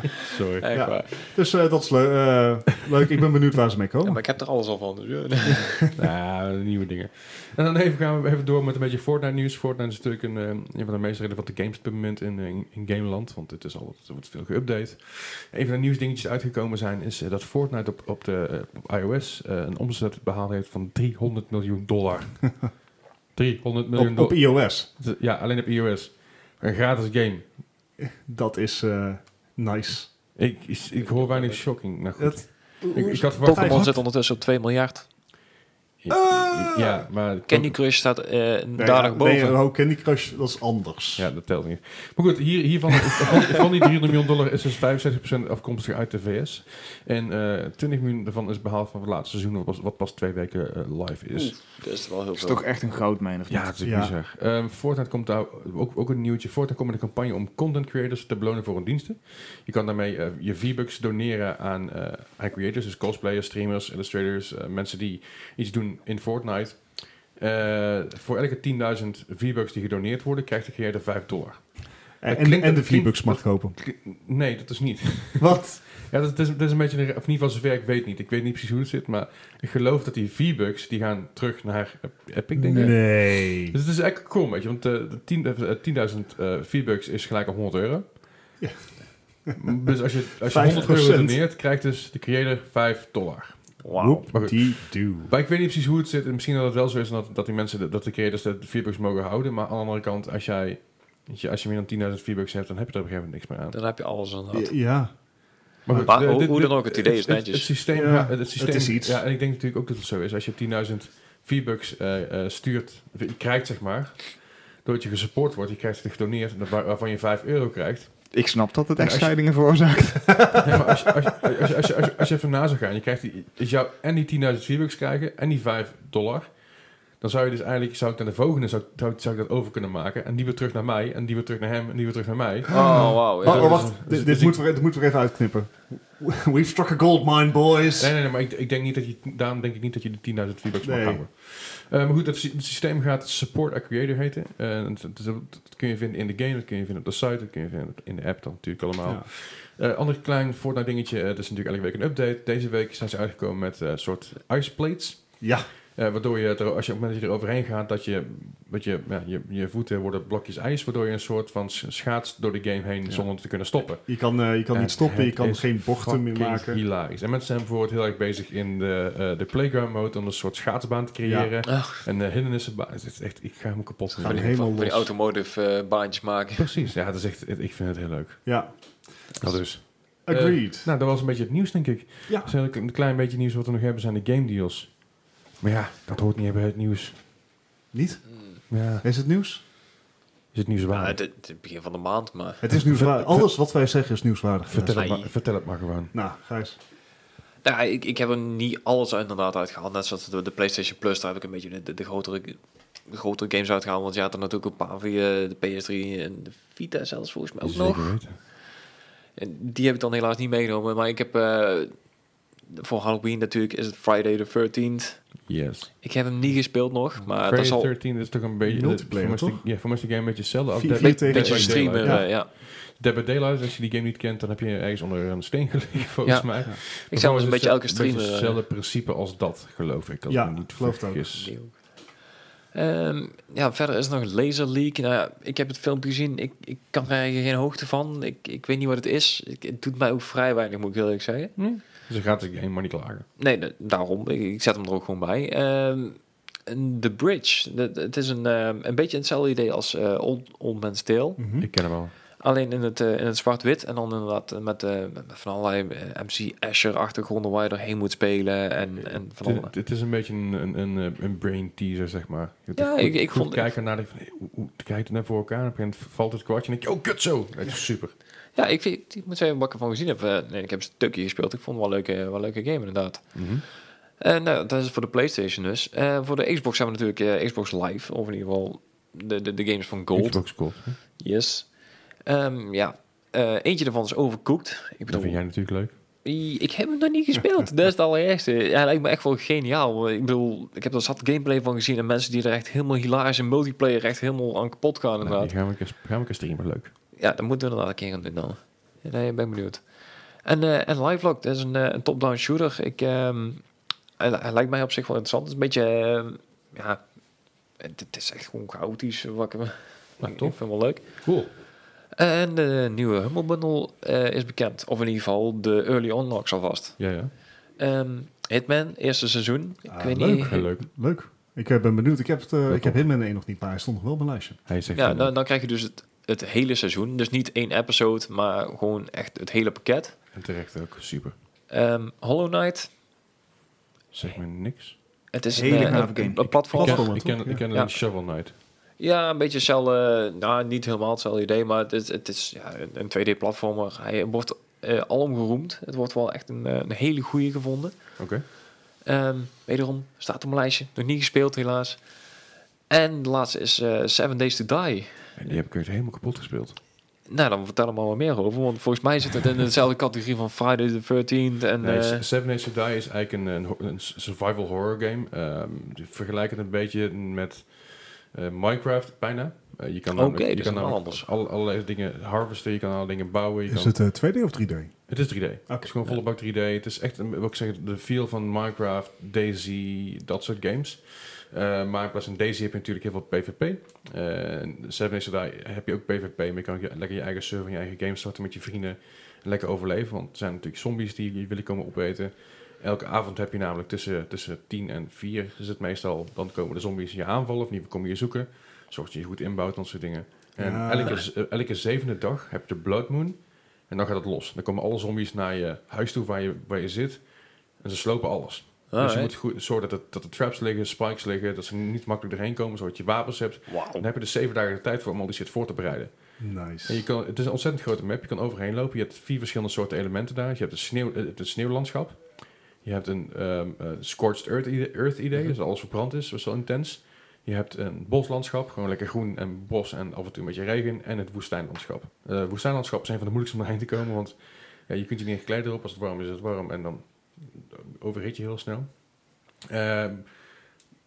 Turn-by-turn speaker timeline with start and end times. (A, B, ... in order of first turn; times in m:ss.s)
0:00.2-0:00.7 A
0:00.6-0:01.3 B
0:00.7-0:04.2 C
0:04.0-0:05.8 B
0:05.5-0:05.9 C
0:05.9-0:22.8 A
0:23.3-0:27.6 A
0:23.9-0:24.9 C
0:28.0-0:30.1 C
0:30.4-0:34.0 A
0:31.0-0:31.6 B
0:32.2-0:33.9 C
0:33.4-0:35.1 B
0:36.0-0:37.8 A
0:36.1-0:37.1 C
0:37.5-0:39.6 B
0:38.8-0:41.3 C
0:41.2-0:51.6 A
0:51.3-0:52.6 B
0:52.4-0:53.8 D
0:53.5-1:28.2 A
0:53.8-0:54.2 C
1:12.2-1:13.8 C
1:15.4-1:15.8 C
1:22.6-1:23.8 C
1:28.6-1:28.9 C
1:29.5-1:43.8 A
1:30.4-1:31.4 C
1:30.6-1:30.9 B
1:33.8-1:34.3 B
1:34.0-1:35.3 C
1:43.7-1:44.8 B
1:44.5-1:46.2 C
1:45.8-1:59.4 A
1:46.0-1:47.7 B
1:47.9-1:49.2 C
1:58.3-2:00.8 D
2:00.6-2:14.6 A
2:12.7-2:18.1 C
2:12.7-2:13.9 B
2:18.0-2:54.6 A
2:20.8-2:21.2 C
2:29.0-2:29.3 C
2:35.4-2:35.7 C
2:43.1-2:46.8 C
2:51.2-2:51.5 C
2:51.7-2:52.0 B
2:54.1-2:56.7 B
2:54.2-2:55.1 C
2:56.6-3:07.2 A
2:58.4-2:59.3 C
3:00.2-3:00.9 C
3:02.3-3:02.6 C
3:07.9-3:09.6 C
3:08.7-3:09.0 A
3:10.5-3:11.2 A
3:10.9-3:12.7 B
3:12.6-3:15.2 C
3:12.9-3:13.5 A
3:14.7-3:16.1 A
3:14.9-3:15.3 B
3:16.1-3:16.8 C
3:17.6-3:28.5 B
3:27.6-3:28.4 A
3:29.3-3:32.1 B
3:32.7-3:37.9 B
3:35.5-3:36.0 A
3:37.4-3:51.5 A
3:38.6-3:39.7 C
3:40.7-3:42.3 C
3:41.0-3:42.5 B
3:46.2-3:48.6 B
3:50.3-3:51.3 C
3:51.3-3:52.2 B
3:52.7-4:01.6 B
4:01.6-4:03.3 A
4:03.4-4:11.7 B
4:11.4-4:11.7 C
4:11.6-4:12.1 A
4:12.4-4:19.7 B
4:18.9-4:28.1 A
4:22.8-4:23.7 B
4:28.5-4:55.5 B
4:33.3-4:33.6 A
4:40.1-4:41.0 A
4:45.1-4:45.9 A
4:55.2-4:56.9 A
4:57.1-5:07.1 B
5:07.7-5:11.2 B
5:10.2-5:11.5 A
5:12.1-5:20.7 B
5:17.0-5:17.3 A
5:19.8-5:24.6 C
5:20.3-5:20.8 A
5:22.7-5:23.0 A
5:24.7-5:25.3 A
5:24.9-5:30.2 B
5:30.3-5:31.4 A
5:31.7-5:32.9 B
5:34.1-5:35.0 A
5:35.3-5:38.0 B
5:35.5-5:36.6 D
5:36.7-5:37.6 C
5:36.8-5:38.5 A
5:39.0-5:48.4 B
5:48.2-5:48.4 A
5:49.0-5:52.3 B
5:52.9-5:55.6 B
5:55.4-5:56.8 A
5:57.2-6:02.2 B
6:01.8-6:14.0 A
6:10.1-6:11.3 B
6:13.7-6:15.9 C
6:15.1-7:20.6 A
6:40.6-6:41.2 C
6:48.9-6:49.3 B
6:53.7-6:54.0 B
6:56.4-6:57.0 C